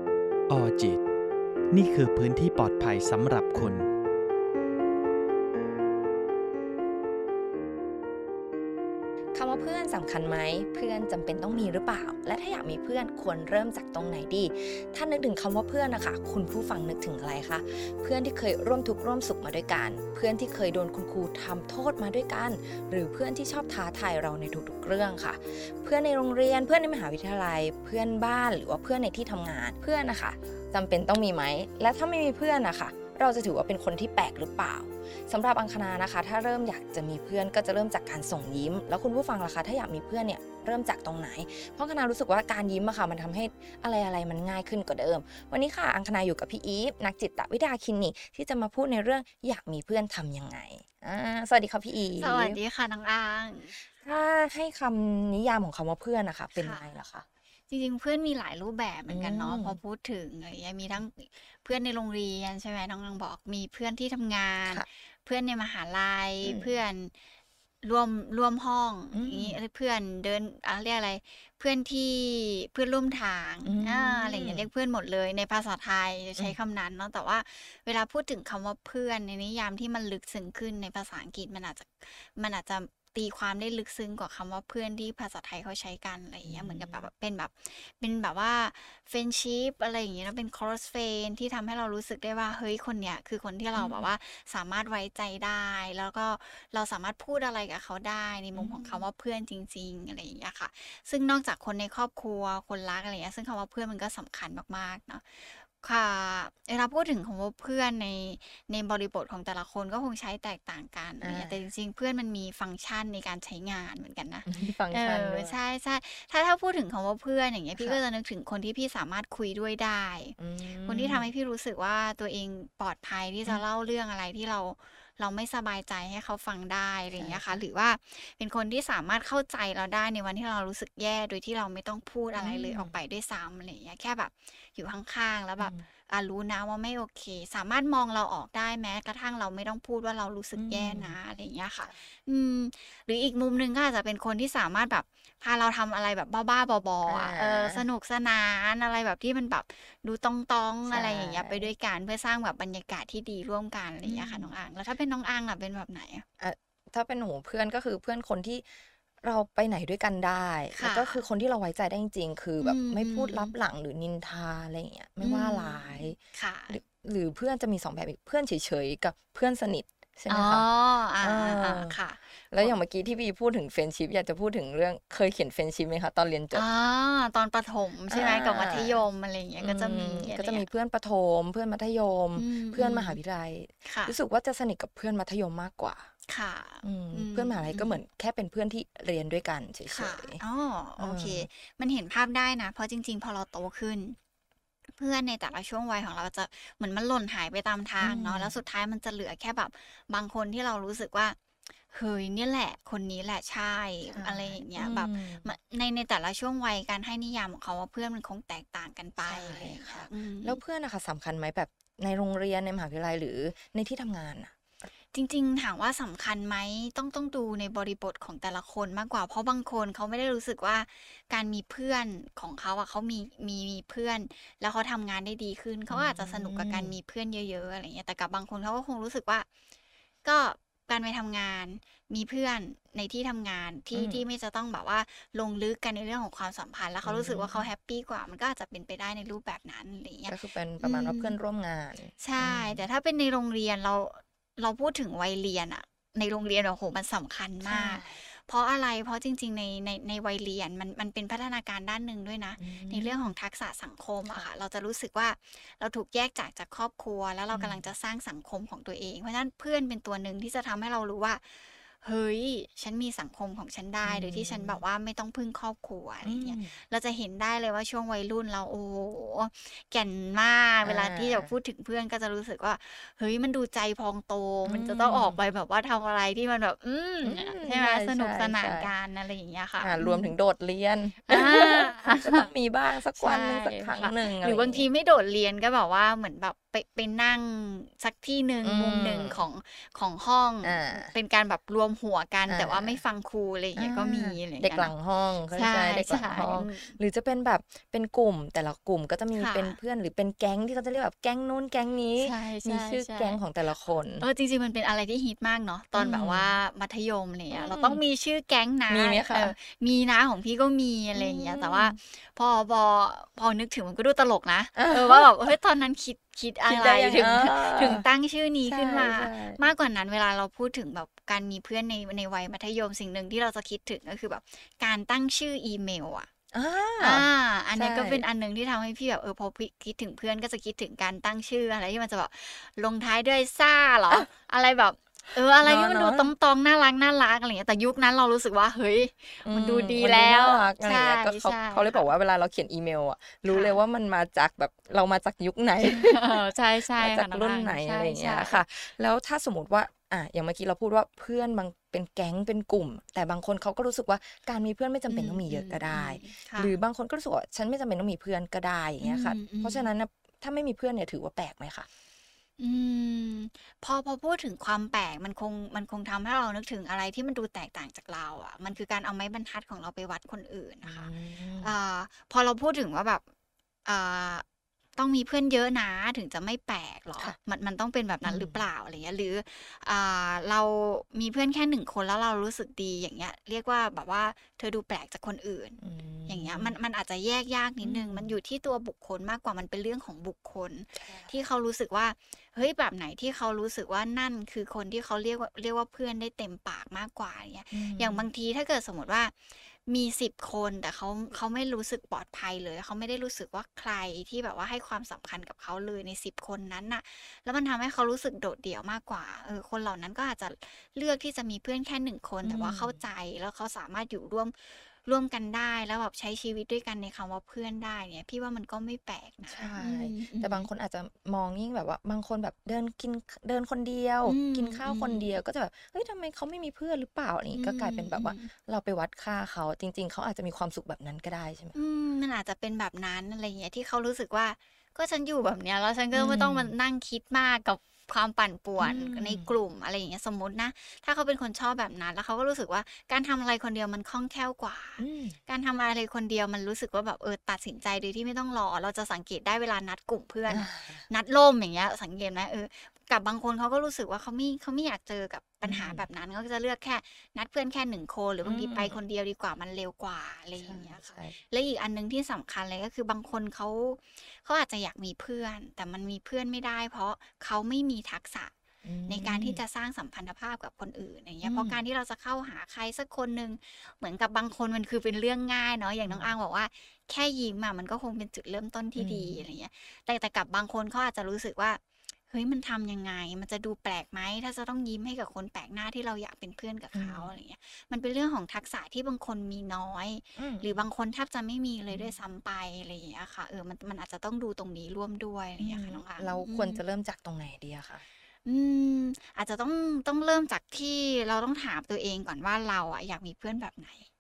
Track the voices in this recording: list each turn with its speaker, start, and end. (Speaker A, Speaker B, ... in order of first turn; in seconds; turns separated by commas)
Speaker A: 0.5-1.0, Speaker A: 1.7-3.9, Speaker B: 9.3-52.6, Speaker C: 52.2-54.1, Speaker B: 53.8-57.3, Speaker C: 56.6-56.9, Speaker C: 57.7-67.1, Speaker B: 59.1-59.8, Speaker B: 66.4-66.8, Speaker C: 67.8-156.2, Speaker B: 69.1-69.6, Speaker B: 73.7-74.7, Speaker B: 86.4-87.1, Speaker B: 93.7-94.1, Speaker B: 98.5-99.1, Speaker B: 111.2-111.6, Speaker B: 114.5-115.6, Speaker B: 117.8-118.0, Speaker B: 120.4-121.3, Speaker B: 127.1-127.6, Speaker B: 132.3-133.0, Speaker B: 135.6-135.9, Speaker B: 140.6-141.2, Speaker B: 147.1-147.9, Speaker B: 150.9-151.7, Speaker B: 154.0-154.6, Speaker B: 156.4-158.7, Speaker B: 159.2-166.2, Speaker C: 160.7-161.3, Speaker C: 162.6-163.6, Speaker C: 165.2-166.8, Speaker B: 166.7-172.0, Speaker C: 170.3-172.8, Speaker B: 172.5-176.7, Speaker C: 176.5-180.7, Speaker B: 178.1-179.0, Speaker B: 179.6-186.1, Speaker C: 182.4-183.2, Speaker C: 183.8-184.2, Speaker C: 186.3-188.0, Speaker B: 186.8-190.4, Speaker C: 189.9-194.2, Speaker B: 191.0-191.5, Speaker C: 195.0-201.4, Speaker B: 198.0-198.6, Speaker C: 201.9-210.6, Speaker B: 204.1-205.5, Speaker B: 209.2-214.5, Speaker C: 215.1-229.5, Speaker B: 225.9-227.0, Speaker C: 230.2-241.4, Speaker B: 233.9-234.3, Speaker B: 237.0-237.7, Speaker B: 240.3-242.9, Speaker C: 242.2-280.3, Speaker B: 247.6-248.2, Speaker B: 252.6-253.2, Speaker B: 257.5-257.9, Speaker B: 264.0-264.8, Speaker B: 266.2-266.8, Speaker B: 270.8-271.6, Speaker B: 274.7-275.4, Speaker B: 277.2-278.9, Speaker B: 279.8-284.9, Speaker C: 281.3-282.5, Speaker C: 283.1-295.0, Speaker B: 288.6-289.4, Speaker B: 290.6-291.1, Speaker B: 292.5-293.0, Speaker B: 293.8-304.3, Speaker C: 295.5-297.0, Speaker C: 299.3-299.8, Speaker C: 302.2-303.5, Speaker C: 304.2-326.3, Speaker B: 305.9-306.6, Speaker B: 307.5-308.0, Speaker B: 308.9-309.5, Speaker B: 311.1-312.0, Speaker B: 314.8-315.5, Speaker B: 316.7-318.1, Speaker B: 318.7-319.6, Speaker B: 326.5-328.2, Speaker C: 327.0-342.1, Speaker B: 335.6-336.3, Speaker B: 339.4-361.9, Speaker C: 343.5-343.8, Speaker C: 345.8-348.6, Speaker C: 355.1-356.8, Speaker C: 359.0-359.9, Speaker C: 362.6-373.2, Speaker B: 370.8-371.7, Speaker C: 373.9-374.4, Speaker C: 375.0-420.7, Speaker B: 378.2-378.6, Speaker B: 385.8-386.8, Speaker B: 387.8-388.4, Speaker B: 390.9-391.3, Speaker B: 397.7-398.3, Speaker B: 412.4-413.0, Speaker B: 419.5-431.8, Speaker C: 424.2-425.4, Speaker C: 427.5-428.5, Speaker C: 431.8-468.5, Speaker B: 436.1-436.8, Speaker B: 438.8-439.6, Speaker B: 445.0-445.4, Speaker B: 450.5-451.1, Speaker B: 455.6-456.1, Speaker B: 458.4-459.0, Speaker B: 460.6-461.4, Speaker B: 468.8-469.6, Speaker C: 469.1-481.8, Speaker B: 471.4-471.8, Speaker B: 476.1-476.4, Speaker B: 479.0-479.4, Speaker C: 482.3-496.8, Speaker B: 486.9-487.3, Speaker B: 490.4-490.9, Speaker B: 491.9-492.2, Speaker B: 495.6-498.0, Speaker C: 498.5-504.1